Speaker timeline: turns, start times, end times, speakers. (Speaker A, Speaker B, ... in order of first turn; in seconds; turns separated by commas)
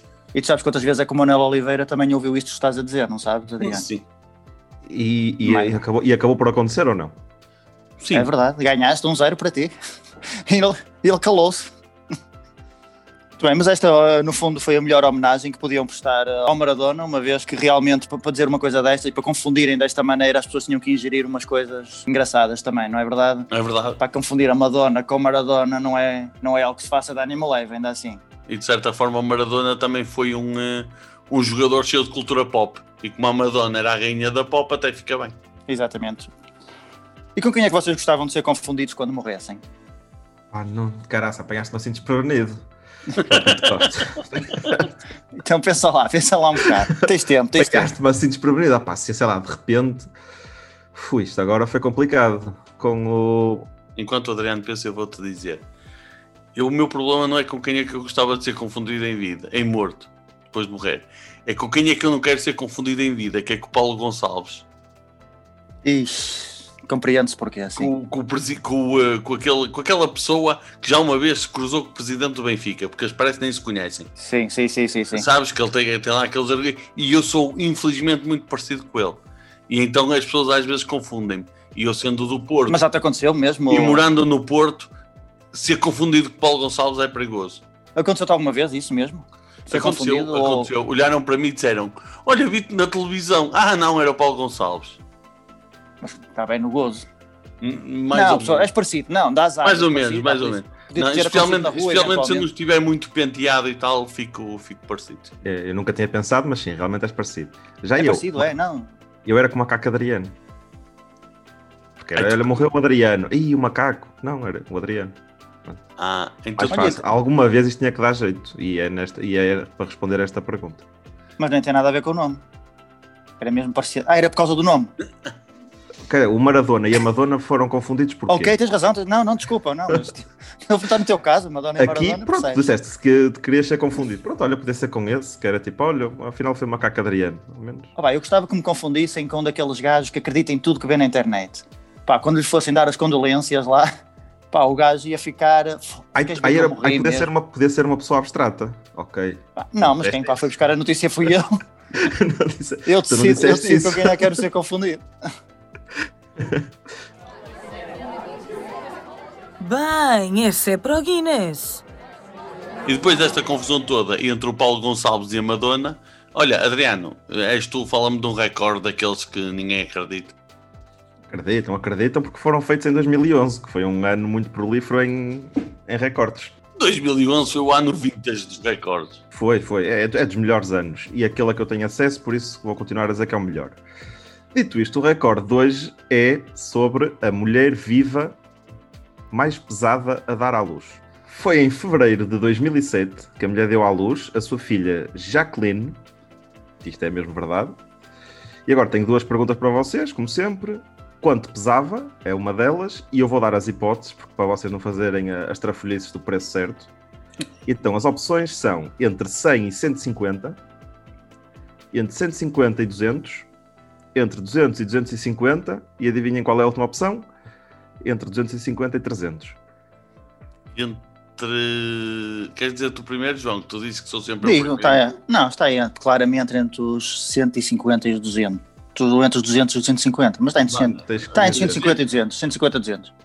Speaker A: 0.3-3.9, Speaker B: 3.6-4.0, Speaker C: 4.9-7.1, Speaker A: 5.5-5.8, Speaker B: 8.0-8.3, Speaker A: 8.1-9.7, Speaker A: 10.4-11.7, Speaker A: 13.4-28.2, Speaker B: 23.5-24.0, Speaker B: 28.5-35.4, Speaker A: 35.7-36.3, Speaker A: 37.4-39.6, Speaker C: 40.5-42.6, Speaker C: 43.2-44.9, Speaker B: 43.3-43.7, Speaker A: 45.4-47.9, Speaker C: 47.6-50.1, Speaker C: 50.9-53.7, Speaker B: 54.0-55.6, Speaker B: 56.5-64.7, Speaker A: 65.8-67.9, Speaker B: 67.8-74.1, Speaker A: 74.2-75.3, Speaker B: 75.1-82.8, Speaker A: 82.7-84.0, Speaker B: 83.7-84.9, Speaker B: 85.5-87.6, Speaker A: 88.0-90.7, Speaker B: 89.7-95.0, Speaker A: 96.0-97.1, Speaker B: 97.6-98.7, Speaker A: 98.1-102.5, Speaker B: 99.6-105.3, Speaker C: 105.4-108.5, Speaker A: 108.0-108.9, Speaker C: 109.2-110.3, Speaker C: 112.0-115.8, Speaker B: 112.2-112.6, Speaker B: 116.0-117.0, Speaker C: 116.6-120.8, Speaker A: 121.4-122.4, Speaker A: 123.4-124.9, Speaker C: 126.1-128.5, Speaker A: 128.3-132.6, Speaker C: 131.8-137.9, Speaker A: 138.0-143.9, Speaker A: 144.5-147.3, Speaker C: 146.2-150.6, Speaker A: 149.6-151.6, Speaker C: 152.0-154.5, Speaker A: 152.9-155.1, Speaker C: 156.4-156.7, Speaker D: 159.6-161.8, Speaker B: 162.9-170.4, Speaker C: 171.3-176.6, Speaker B: 176.8-179.2, Speaker C: 179.3-183.8, Speaker C: 184.5-188.4, Speaker C: 189.3-196.0, Speaker C: 196.8-197.8, Speaker C: 198.7-206.9, Speaker C: 207.7-210.6, Speaker C: 211.9-213.5, Speaker C: 214.2-217.3, Speaker C: 218.0-219.6, Speaker B: 220.7-225.1, Speaker A: 224.4-233.1, Speaker B: 230.7-232.0, Speaker C: 230.9-231.9